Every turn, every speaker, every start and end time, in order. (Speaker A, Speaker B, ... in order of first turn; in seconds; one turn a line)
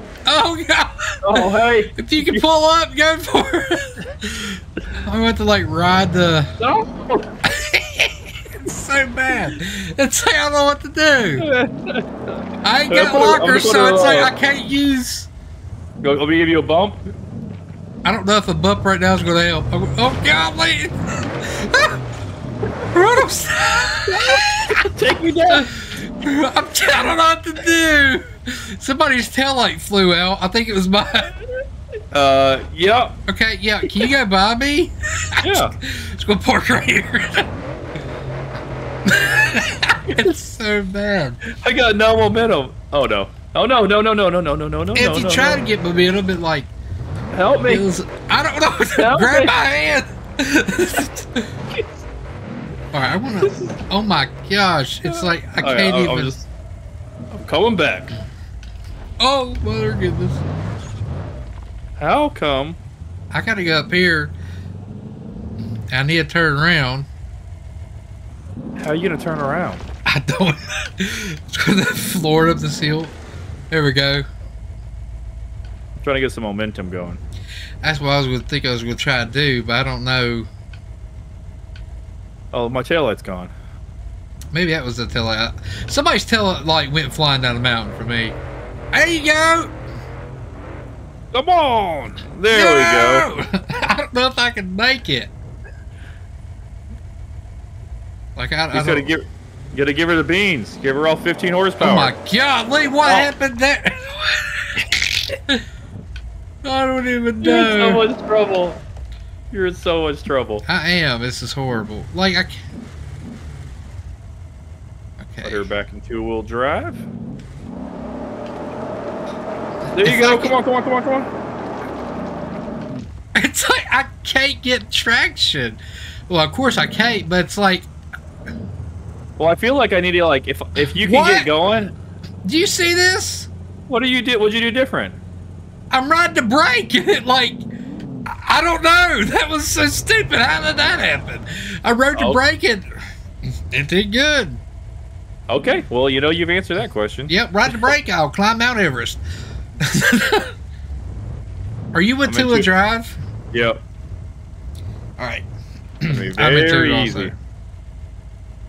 Speaker A: 0.3-6.5
Speaker B: 1.2-2.4
Speaker B: 6.6-7.3
Speaker A: 7.5-11.5
Speaker B: 11.4-12.1
Speaker A: 12.6-15.3
Speaker B: 12.9-14.3
Speaker B: 16.0-17.0
Speaker A: 18.0-22.0
Speaker A: 22.9-24.9
Speaker B: 24.1-25.7
Speaker A: 25.5-31.4
Speaker B: 32.1-33.2
Speaker A: 33.3-37.5
Speaker B: 35.4-35.7
Speaker A: 39.0-41.4
Speaker B: 41.5-45.6
Speaker A: 44.9-46.7
Speaker B: 47.3-47.9
Speaker A: 47.7-51.5
Speaker B: 49.0-49.5
Speaker A: 52.9-56.3
Speaker B: 55.1-56.5
Speaker B: 57.3-58.1
Speaker A: 59.2-60.4
Speaker B: 62.0-62.8
Speaker A: 63.3-64.3
Speaker A: 65.9-67.1
Speaker B: 68.8-69.8
Speaker A: 70.0-73.1
Speaker A: 73.7-74.3
Speaker B: 76.0-77.2
Speaker A: 77.8-80.5
Speaker B: 82.5-83.5
Speaker A: 84.5-88.4
Speaker A: 88.9-89.7
Speaker B: 91.3-93.3
Speaker A: 92.5-95.3
Speaker A: 98.4-99.1
Speaker B: 98.7-102.1
Speaker A: 101.8-105.6
Speaker A: 106.6-108.0
Speaker B: 107.4-108.8
Speaker B: 109.5-110.7
Speaker A: 110.7-112.6
Speaker A: 115.2-115.7
Speaker B: 115.4-117.0
Speaker B: 119.9-121.3
Speaker A: 120.0-120.5
Speaker A: 123.3-127.9
Speaker B: 129.4-131.9
Speaker A: 130.8-131.7
Speaker A: 132.4-133.5
Speaker B: 133.9-135.2
Speaker A: 135.9-137.6
Speaker A: 138.3-142.9
Speaker B: 142.1-142.4
Speaker A: 143.5-144.6
Speaker B: 145.5-147.8
Speaker A: 147.3-149.2
Speaker A: 149.8-150.5
Speaker A: 151.9-153.2
Speaker B: 152.2-152.7
Speaker B: 153.5-153.8
Speaker A: 155.2-155.5
Speaker A: 156.0-157.3
Speaker B: 156.1-157.3